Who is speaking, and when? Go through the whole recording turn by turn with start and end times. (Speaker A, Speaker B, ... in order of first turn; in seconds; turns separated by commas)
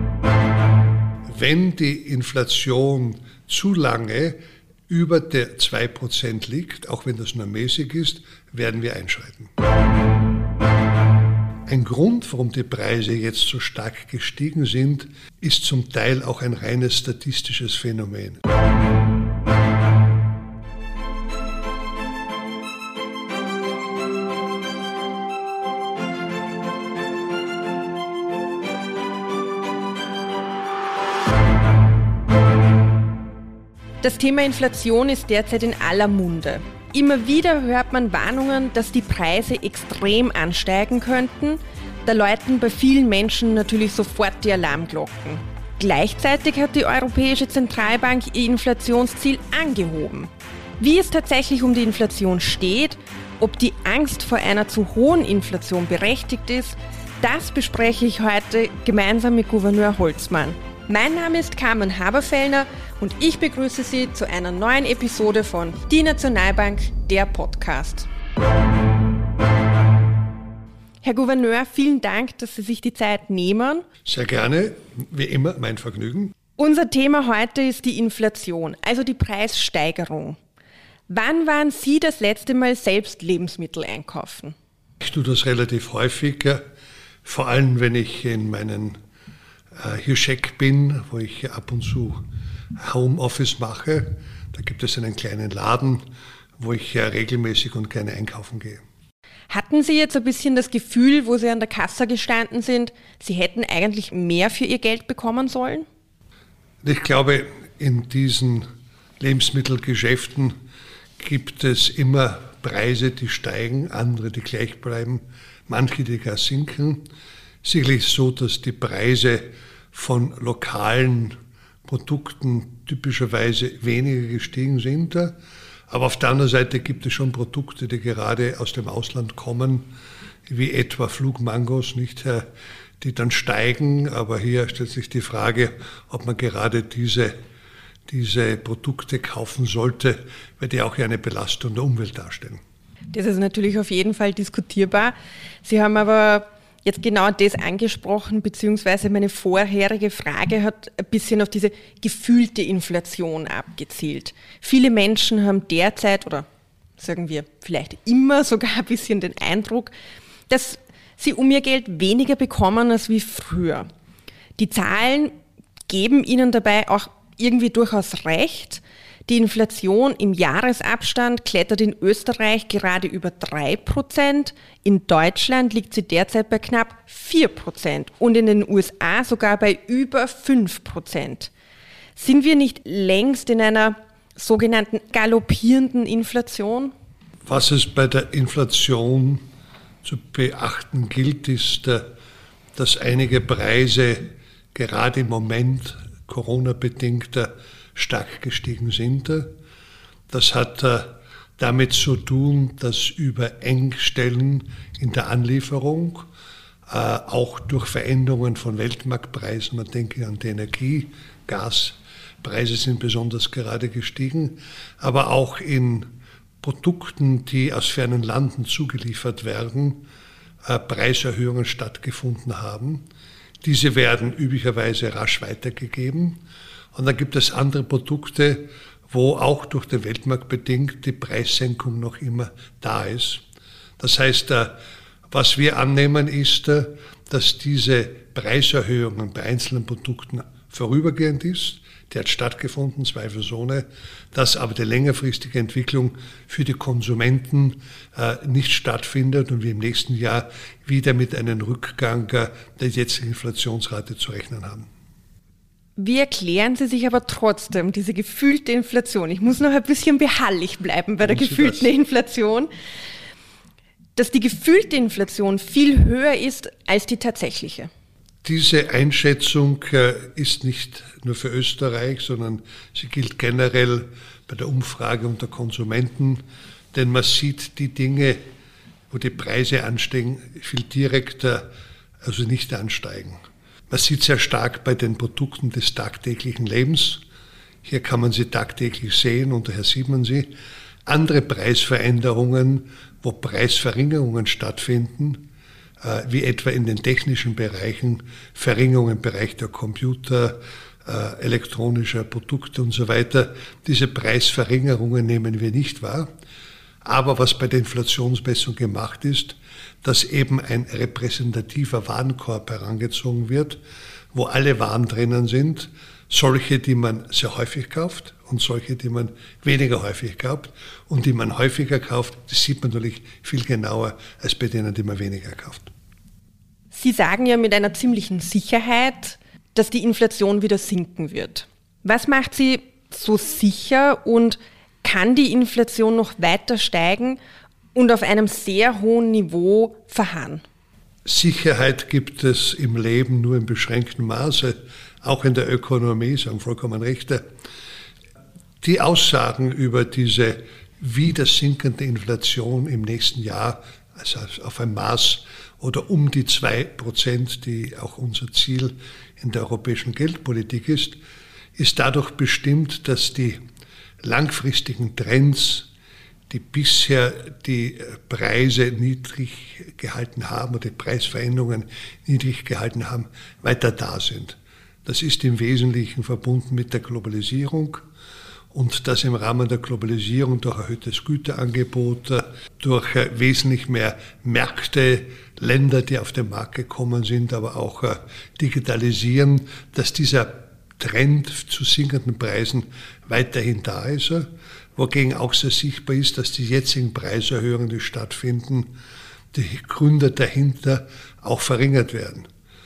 Speaker A: 1.2-4.4, Speaker A: 4.9-9.5, Speaker A: 11.7-18.4, Speaker B: 34.0-68.1, Speaker B: 71.0-73.9, Speaker A: 74.0-76.3, Speaker B: 76.6-80.4, Speaker B: 81.1-84.5, Speaker A: 85.0-86.6, Speaker A: 87.2-89.0, Speaker A: 89.8-92.2, Speaker A: 92.8-96.0, Speaker A: 96.6-98.8, Speaker B: 99.5-105.9, Speaker A: 106.8-108.7, Speaker A: 109.2-110.5, Speaker A: 111.2-117.0, Speaker A: 117.6-125.3, Speaker A: 125.9-129.8, Speaker A: 130.5-132.5, Speaker A: 133.0-137.3, Speaker A: 138.1-142.6, Speaker B: 143.1-156.4, Speaker B: 157.0-159.9, Speaker B: 160.5-163.9, Speaker B: 164.6-165.3, Speaker B: 165.9-181.5, Speaker B: 182.2-186.9, Speaker A: 187.4-189.4, Speaker A: 190.0-192.1, Speaker A: 192.8-199.5, Speaker A: 200.3-206.2, Speaker A: 206.9-216.1, Speaker A: 216.6-220.0, Speaker A: 220.6-223.0, Speaker A: 223.6-226.4, Speaker A: 226.9-233.4, Speaker A: 234.0-234.8, Speaker A: 235.3-254.9, Speaker B: 256.0-262.7, Speaker A: 261.2-261.9, Speaker B: 264.2-267.9, Speaker A: 268.4-278.4, Speaker A: 279.1-281.7, Speaker A: 282.2-287.2, Speaker A: 287.9-290.5, Speaker A: 291.1-295.4, Speaker A: 296.0-306.3, Speaker A: 307.0-313.8, Speaker A: 314.3-325.9, Speaker B: 326.9-337.4, Speaker B: 337.9-340.6, Speaker A: 341.2-347.4, Speaker A: 348.8-361.2, Speaker A: 361.8-363.6, Speaker A: 364.2-365.9, Speaker A: 366.5-378.0, Speaker A: 378.7-398.9, Speaker A: 399.5-402.5